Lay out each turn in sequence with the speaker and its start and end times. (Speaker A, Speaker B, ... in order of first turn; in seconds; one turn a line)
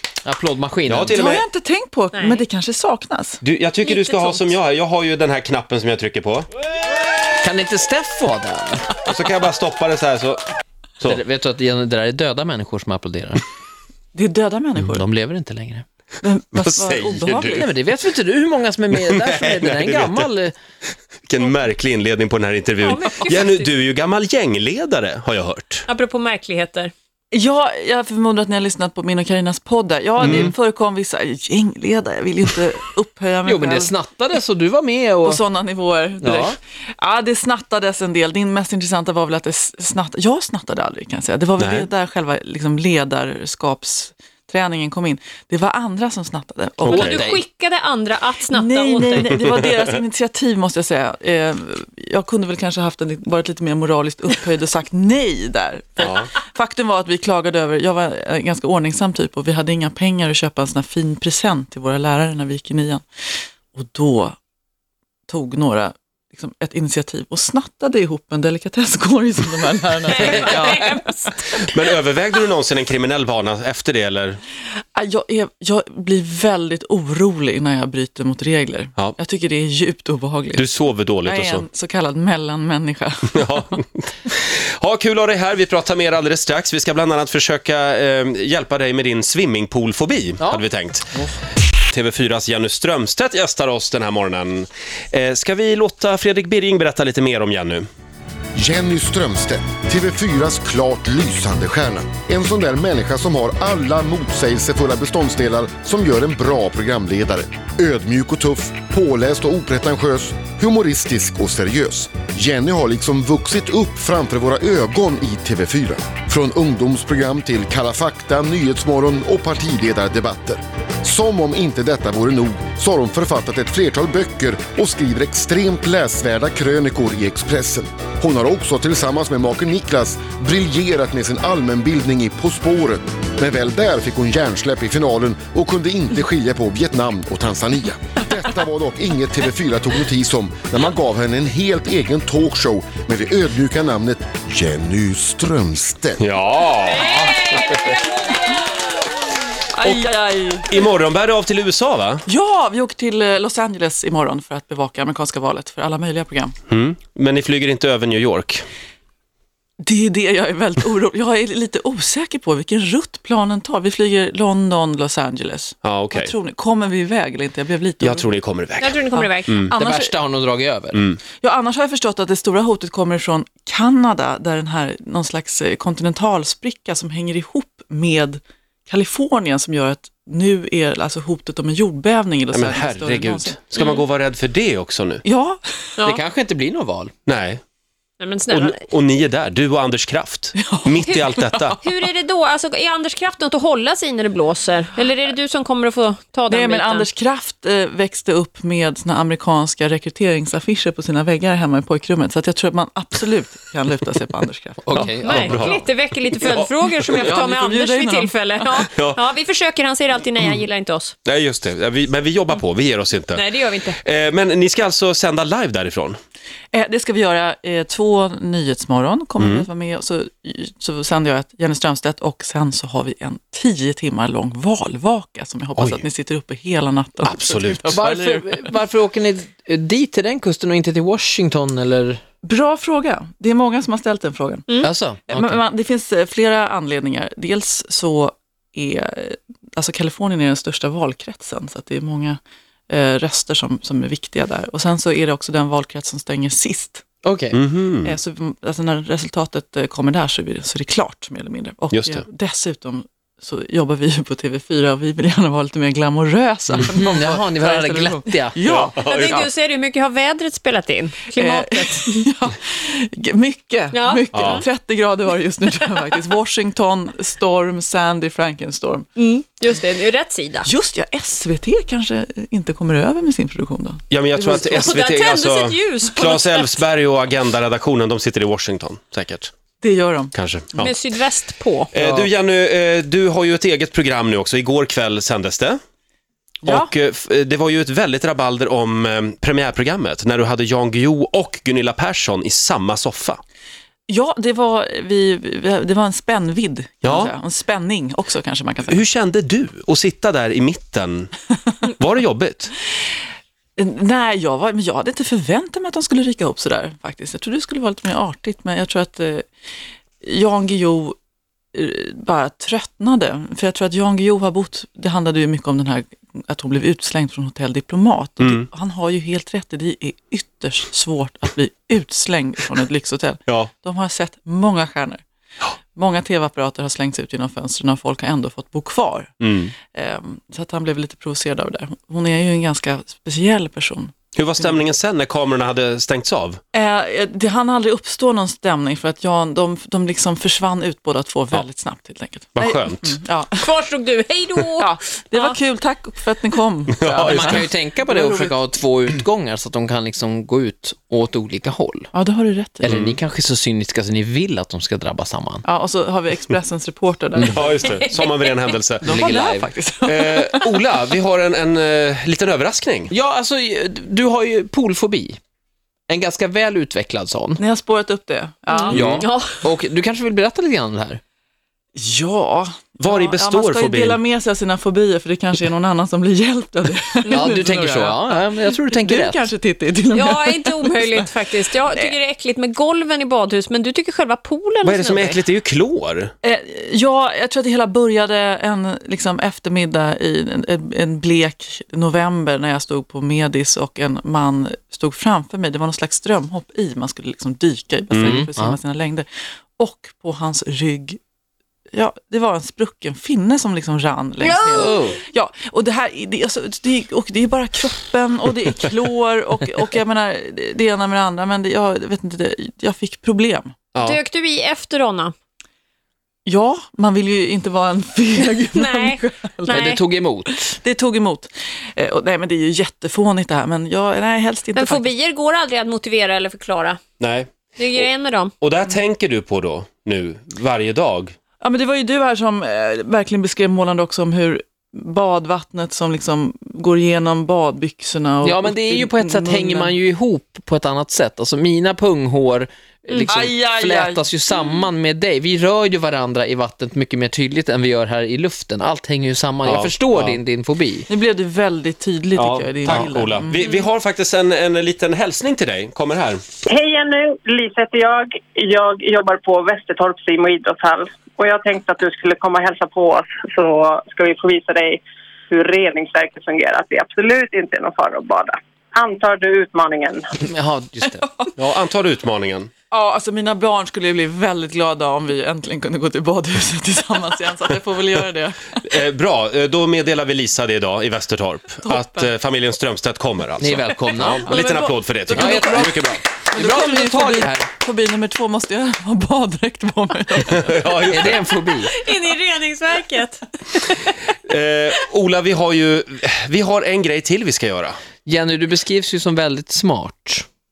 Speaker A: 0.2-1.3
Speaker B: 0.9-1.4
Speaker C: 1.1-3.4
Speaker D: 2.1-2.4
Speaker B: 3.4-6.5
Speaker D: 3.8-4.5
Speaker A: 7.4-9.0
Speaker B: 9.0-10.4
Speaker A: 11.1-13.4
Speaker C: 14.2-15.1
Speaker A: 14.8-15.9
Speaker C: 16.2-17.8
Speaker B: 16.6-17.6
Speaker A: 17.6-20.5
Speaker B: 18.9-20.3
Speaker B: 21.3-25.9
Speaker D: 22.8-23.7
Speaker D: 25.9-26.9
Speaker C: 27.3-34.0
Speaker B: 30.2-30.5
Speaker A: 30.2-30.5
Speaker A: 33.5-35.4
Speaker C: 35.2-47.2
Speaker A: 36.2-36.6
Speaker B: 41.6-41.9
Speaker B: 46.8-47.2
Speaker A: 46.8-47.5
Speaker D: 46.9-49.4
Speaker C: 48.5-63.0
Speaker B: 56.0-56.3
Speaker C: 63.8-64.4
Speaker C: 65.3-70.9
Speaker D: 70.1-71.6
Speaker A: 70.2-71.0
Speaker B: 71.5-74.4
Speaker C: 75.0-80.7
Speaker B: 80.6-81.7
Speaker C: 81.2-83.8
Speaker B: 83.4-91.2
Speaker A: 90.4-90.7
Speaker B: 91.9-97.9
Speaker E: 98.5-146.2
Speaker B: 146.2-148.0
Speaker D: 146.8-148.8
Speaker C: 149.7-150.8
Speaker B: 150.7-152.3
Speaker C: 152.3-156.6
Speaker B: 156.7-158.6
Speaker C: 159.8-168.3
Speaker B: 165.8-166.3
Speaker B: 168.0-169.7
Speaker D: 168.8-169.6
Speaker C: 169.1-170.2
Speaker A: 169.8-171.1
Speaker B: 170.9-171.2
Speaker C: 171.4-183.6
Speaker B: 182.5-185.2
Speaker D: 183.8-184.0
Speaker C: 185.2-186.0
Speaker D: 186.0-186.2
Speaker A: 186.0-187.1
Speaker B: 187.3-187.6
Speaker D: 188.2-188.8
Speaker B: 188.5-191.8
Speaker C: 190.6-191.9
Speaker D: 191.8-197.1
Speaker C: 196.5-205.2
Speaker A: 204.8-205.9
Speaker D: 205.2-211.2
Speaker B: 205.3-205.8
Speaker B: 206.4-207.3
Speaker C: 207.1-208.3
Speaker B: 208.8-209.2
Speaker B: 211.3-213.4
Speaker D: 213.3-214.0
Speaker B: 213.9-216.2
Speaker C: 216.7-228.8
Speaker B: 219.4-219.7
Speaker B: 225.8-226.1
Speaker B: 227.2-228.0
Speaker A: 227.9-232.2
Speaker C: 232.4-234.8
Speaker A: 234.8-235.6
Speaker C: 235.3-247.0
Speaker A: 247.2-247.6
Speaker B: 247.5-248.2
Speaker C: 248.0-259.5
Speaker B: 251.9-252.2
Speaker A: 256.9-258.6
Speaker B: 258.6-259.4
Speaker D: 259.0-262.3
Speaker C: 261.4-269.1
Speaker D: 263.9-264.6
Speaker B: 264.3-264.6
Speaker D: 269.2-270.7
Speaker C: 270.6-275.0
Speaker B: 274.1-279.5
Speaker D: 274.7-276.8
Speaker C: 279.8-280.9
Speaker B: 280.3-280.9
Speaker D: 280.8-281.9
Speaker B: 281.9-285.8
Speaker A: 282.0-282.3
Speaker C: 286.6-286.9
Speaker B: 286.6-293.4
Speaker C: 294.1-299.0
Speaker B: 297.0-297.3
Speaker B: 298.9-301.3
Speaker B: 301.9-302.7
Speaker C: 303.8-309.5
Speaker C: 310.2-311.2
Speaker C: 311.7-325.2
Speaker B: 318.4-318.7
Speaker C: 325.9-329.4
Speaker B: 329.4-329.7
Speaker C: 329.9-334.1
Speaker B: 334.4-336.6
Speaker C: 336.7-343.7
Speaker B: 342.6-343.2
Speaker D: 343.6-345.6
Speaker C: 344.8-348.6
Speaker B: 346.9-347.6
Speaker A: 347.2-352.1
Speaker C: 352.1-353.0
Speaker A: 352.8-355.6
Speaker B: 352.9-353.2
Speaker C: 355.6-358.2
Speaker B: 357.4-359.2
Speaker D: 357.9-358.7
Speaker C: 359.0-360.8
Speaker A: 359.1-359.7
Speaker B: 360.0-363.1
Speaker A: 363.1-365.4
Speaker A: 366.1-367.6
Speaker C: 367.6-369.1
Speaker D: 368.7-369.6
Speaker B: 368.9-369.3
Speaker A: 368.9-371.2
Speaker C: 371.9-381.3
Speaker B: 373.0-374.2
Speaker D: 377.2-377.5
Speaker A: 377.3-379.5
Speaker D: 380.1-385.4
Speaker B: 384.8-386.3
Speaker C: 386.4-401.2
Speaker B: 398.1-398.4
Speaker A: 398.2-398.8
Speaker C: 401.9-413.7
Speaker D: 404.4-405.1
Speaker A: 404.7-405.2
Speaker B: 413.9-414.2
Speaker D: 414.0-415.3
Speaker C: 416.4-420.0
Speaker D: 418.7-420.0
Speaker A: 419.6-420.8
Speaker C: 420.5-425.1
Speaker D: 424.8-427.0
Speaker B: 427.2-428.1
Speaker D: 427.8-428.5
Speaker B: 428.6-431.3
Speaker C: 431.6-440.0
Speaker A: 438.4-451.1
Speaker C: 443.3-444.9
Speaker B: 449.6-450.4
Speaker C: 451.1-453.6
Speaker B: 452.4-456.4
Speaker F: 456.7-470.3
Speaker A: 470.4-471.3
Speaker C: 471.0-471.5
Speaker B: 471.6-472.7
Speaker C: 472.9-478.8
Speaker B: 478.9-486.2
Speaker C: 481.8-482.3
Speaker A: 483.6-484.6
Speaker C: 483.9-491.3
Speaker A: 485.3-487.7
Speaker B: 490.6-491.4
Speaker A: 491.0-491.9
Speaker D: 491.8-493.4
Speaker B: 494.3-498.0
Speaker A: 498.3-500.5